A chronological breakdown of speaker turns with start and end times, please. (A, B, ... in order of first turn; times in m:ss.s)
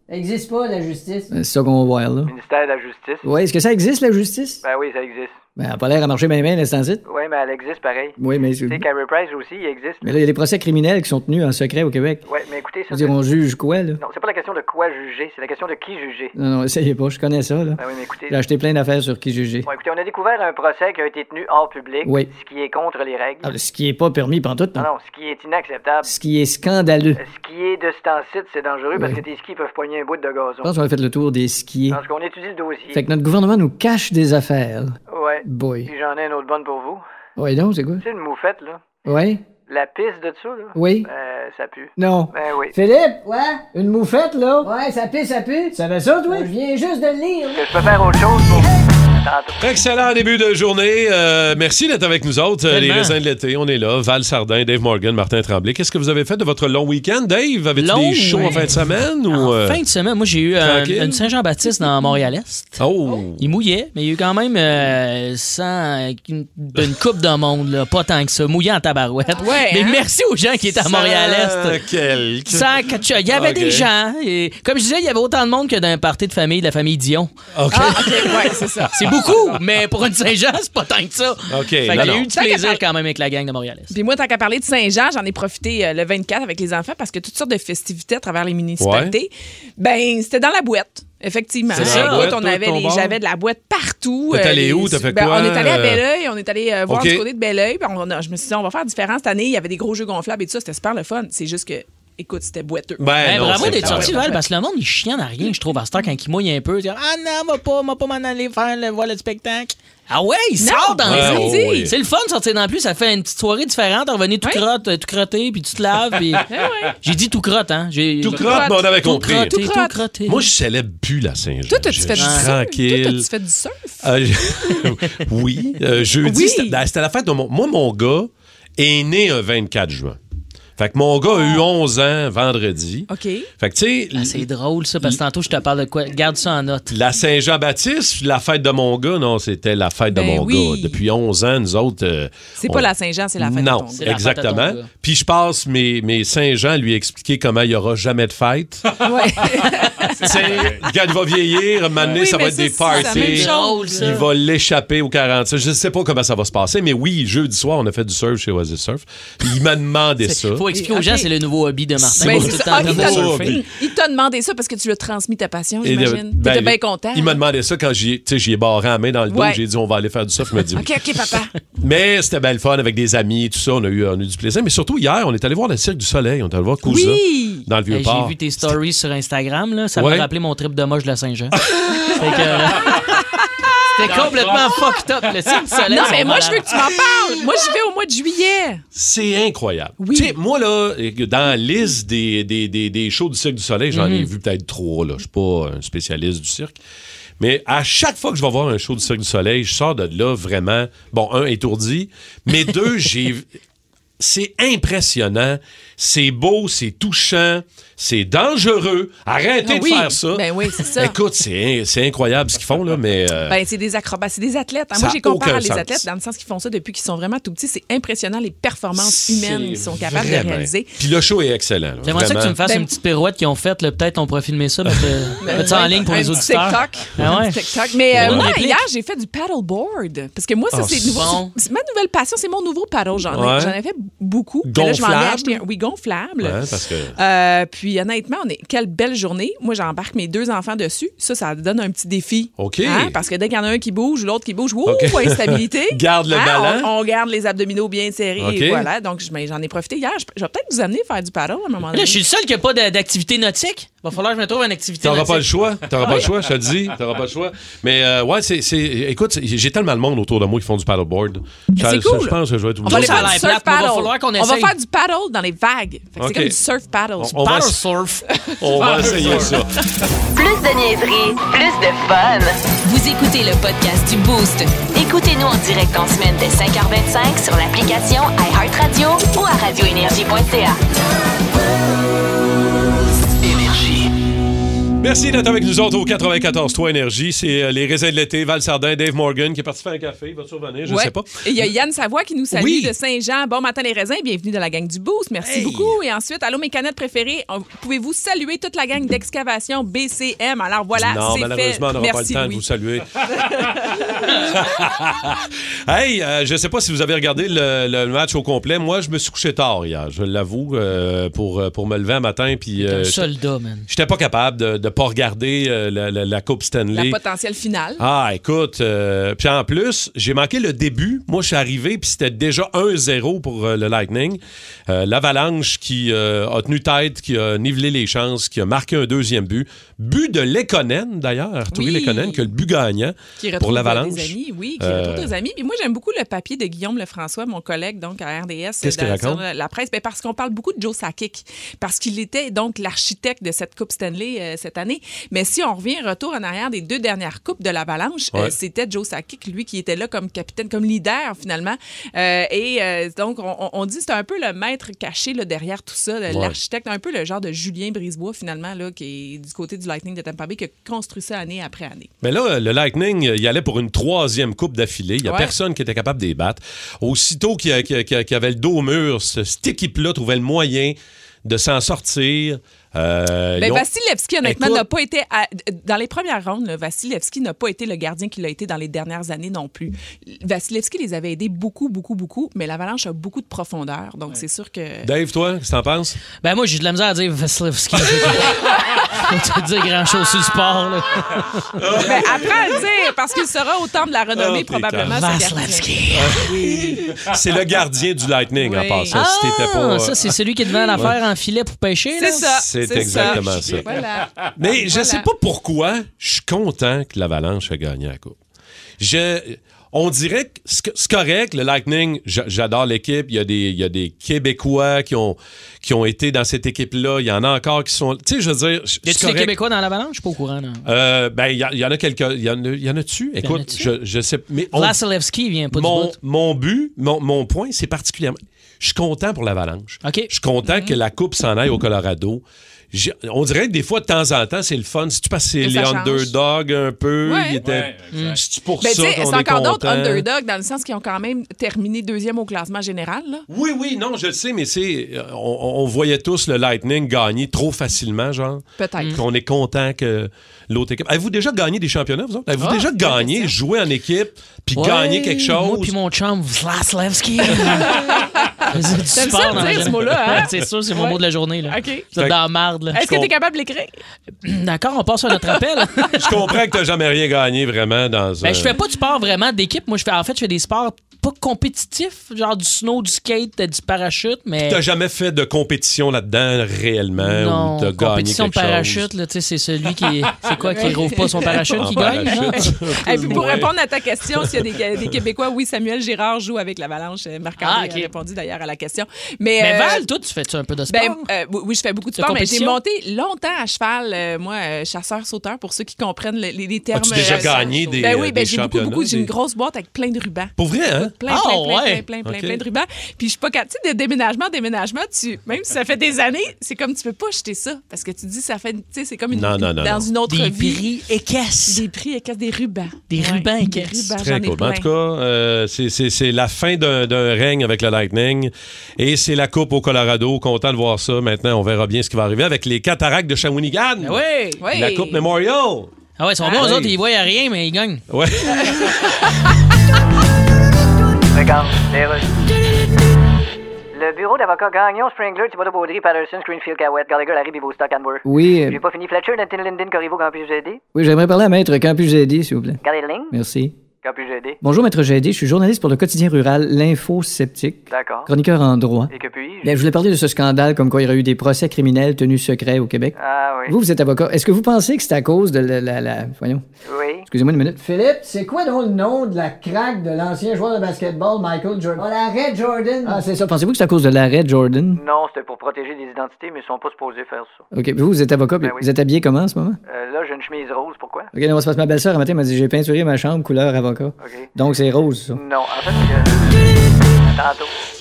0:00.1-0:01.3 A
0:01.3-0:02.3 B
0:02.2-0:03.3 C
0:03.2-0:04.6 B
0:04.6-0:05.4 C
0:05.6-0:07.0 B
0:07.0-0:10.1 C
0:08.2-0:08.8 B
0:10.0-0:12.2 B
0:12.2-0:13.2 C
0:12.9-0:14.0 B
0:14.0-0:16.3 C
0:16.4-0:19.7 B
0:17.8-0:18.4 C
0:19.6-0:23.5 C
0:22.0-0:22.3 B
0:23.4-0:24.9 B
0:24.8-0:26.1 C
0:26.0-0:27.2 B
0:27.2-0:30.8 C
0:30.6-0:32.0 B
0:31.9-0:33.0 C
0:32.9-0:35.9 B
0:35.1-0:37.0 C
0:37.4-0:38.0 B
0:38.0-0:39.0 C
0:39.0-0:39.4 B
0:39.6-0:42.8 C
0:40.8-0:41.1 B
0:42.0-0:42.3 B
0:42.7-0:47.7 A
0:47.5-0:49.8 C
0:49.6-0:59.8 D
0:52.7-0:53.2 E
0:57.8-1:02.8 E
1:00.6-1:01.2 D
1:02.8-1:03.4 D
1:03.4-1:11.8 E
1:09.4-1:10.0 F
1:10.8-1:12.7 D
1:12.5-1:17.9 E
1:13.3-1:13.9 D
1:17.6-1:18.5 D
1:17.7-1:19.0 F
1:18.9-1:23.9 E
1:19.0-1:19.4 D
1:21.5-1:22.3 D
1:22.3-1:22.8 F
1:23.9-1:44.4 F
1:28.8-1:29.2 D
1:31.7-1:33.2 D
1:31.8-1:32.3 E
1:34.3-1:36.0 D
1:36.9-1:37.2 D
1:43.0-1:44.3 D
1:43.2-1:56.5 E
1:50.6-1:51.9 F
1:51.0-1:51.9 D
1:56.5-1:57.0 F
1:57.0-2:00.5 E
1:58.2-1:59.6 D
1:58.3-2:00.0 F
2:00.3-2:03.3 D
2:01.7-2:04.8 F
2:02.2-2:02.5 E
2:04.0-2:10.2 D
2:06.2-2:06.8 F
2:10.8-2:14.4 D
2:11.3-2:11.7 F
2:13.1-2:13.5 F
2:14.2-2:17.0 E
2:16.9-2:29.0 D
2:20.1-2:21.0 F
2:22.6-2:24.0 F
2:24.0-2:24.9 E
2:29.0-2:30.8 F
2:30.2-2:40.7 D
2:32.0-2:34.1 F
2:32.9-2:34.3 E
2:40.2-2:43.6 E
2:40.8-2:41.3 F
2:42.1-2:43.7 D
2:42.2-2:47.4 F
2:45.8-2:50.9 D
2:49.3-2:49.6 F
2:50.7-2:51.6 F
2:51.8-2:58.8 D
2:56.8-2:57.7 F
2:57.9-3:01.6 E
3:00.0-3:00.3 D
3:01.6-3:02.2 D
3:02.1-3:03.1 E
3:04.0-3:06.7 E
3:04.1-3:04.6 D
3:05.9-3:08.8 F
3:09.0-3:16.8 D
3:10.0-3:10.3 F
3:13.9-3:14.3 E
3:17.4-3:23.5 D
3:24.2-3:33.6 D
3:29.6-3:31.2 F
3:33.5-3:41.0 F
3:35.0-3:36.0 D
3:38.9-3:42.6 D
3:42.0-3:47.6 E
3:42.6-3:42.9 F
3:45.4-3:56.6 F
3:48.1-3:48.6 D
3:48.1-3:48.8 E
3:50.7-3:51.3 D
3:51.1-3:51.5 E
3:53.3-3:53.8 D
3:54.6-3:55.6 D
3:56.4-3:57.2 D
3:57.2-4:12.2 F
4:02.6-4:03.2 D
4:04.8-4:06.9 D
4:08.4-4:08.9 D
4:11.9-4:15.5 E
4:15.0-4:23.4 D
4:16.0-4:16.3 F
4:21.8-4:27.4 F
4:22.8-4:24.7 E
4:26.2-4:26.6 D
4:27.2-4:27.8 D
4:27.4-4:28.2 E
4:28.6-4:29.8 D
4:28.8-4:29.6 E
4:30.4-4:40.8 G
4:43.5-4:43.8 G
4:45.0-4:51.7 D
4:50.9-5:02.6 F
4:52.5-4:52.9 D
4:55.4-4:56.0 D
5:01.0-5:13.3 D
5:03.4-5:04.3 F
5:12.8-5:13.9 E
5:13.9-5:17.2 D
5:16.9-5:18.0 F
5:18.0-5:35.3 D
5:31.7-5:32.5 F
5:33.4-6:02.1 F
5:38.8-5:39.4 D
5:56.3-5:56.6 D
6:02.2-6:13.9 D
6:05.2-6:05.5 F
6:13.6-6:25.1 F
6:14.4-6:14.9 D
6:25.0-6:26.2 D
6:26.4-6:31.7 E
6:31.8-6:32.6 D
6:32.0-6:35.9 F
6:34.4-6:35.2 D
6:35.0-6:36.8 E
6:36.1-6:40.3 D
6:36.5-6:37.0 F
6:38.6-6:39.2 F
6:39.1-6:42.5 E
6:40.9-6:41.2 D
6:42.2-6:45.3 F
6:42.5-6:44.0 D
6:43.1-6:43.4 E
6:44.6-6:48.4 D
6:49.0-6:59.6 D
6:59.0-7:00.9 E
7:00.8-7:05.0 D
7:03.4-7:03.9 E
7:04.7-7:06.2 E
7:05.7-7:20.3 D
7:10.0-7:10.3 E
7:10.6-7:11.0 F
7:15.6-7:16.3 F
7:17.2-7:17.6 F
7:18.1-7:18.4 E
7:18.8-7:23.4 F
7:23.5-7:35.9 D
7:28.8-7:29.2 F
7:32.6-7:33.5 F
7:34.7-7:43.3 E
7:37.6-7:42.1 F
7:39.4-7:40.1 D
7:42.9-7:44.0 F
7:44.4-7:46.2 E
7:46.2-7:48.8 D
7:48.4-7:54.8 E
7:54.6-7:59.1 D
7:57.2-8:03.6 E
8:00.7-8:10.0 F
8:01.4-8:03.7 D
8:07.6-8:08.1 E
8:09.6-8:11.3 E
8:10.9-8:30.8 F
8:12.2-8:12.8 E
8:16.9-8:19.3 D
8:17.1-8:18.1 E
8:20.6-8:21.1 D
8:21.3-8:22.0 E
8:22.2-8:22.6 D
8:29.3-8:30.1 D
8:30.3-8:31.8 E
8:31.7-8:34.9 F
8:33.1-8:34.1 E
8:34.2-8:44.2 D
8:44.0-8:44.6 E
8:44.6-8:45.2 F
8:44.7-8:45.9 D
8:46.2-8:48.0 E
8:46.5-8:47.0 D
8:48.1-8:49.0 D
8:48.6-8:49.1 F
8:51.3-8:52.3 C
8:53.9-9:00.8 C
8:58.2-8:58.8 B
9:00.9-9:03.8 B
9:02.8-9:03.3 C
9:04.0-9:04.6 C
9:04.6-9:09.1 B
9:07.9-9:08.3 C
9:09.1-9:09.7 C
9:09.6-9:13.2 B
9:13.2-9:13.8 C
9:13.7-9:16.6 B
9:16.8-9:17.3 C
9:17.3-9:17.8 B
9:17.8-9:23.2 A
9:23.0-9:25.0 B
9:25.0-9:27.6 C
9:27.7-9:29.8 B
9:29.9-9:31.3 C
9:31.3-9:35.4 B
9:34.2-9:34.5 C
9:35.3-9:36.6 C
9:37.1-9:37.7 C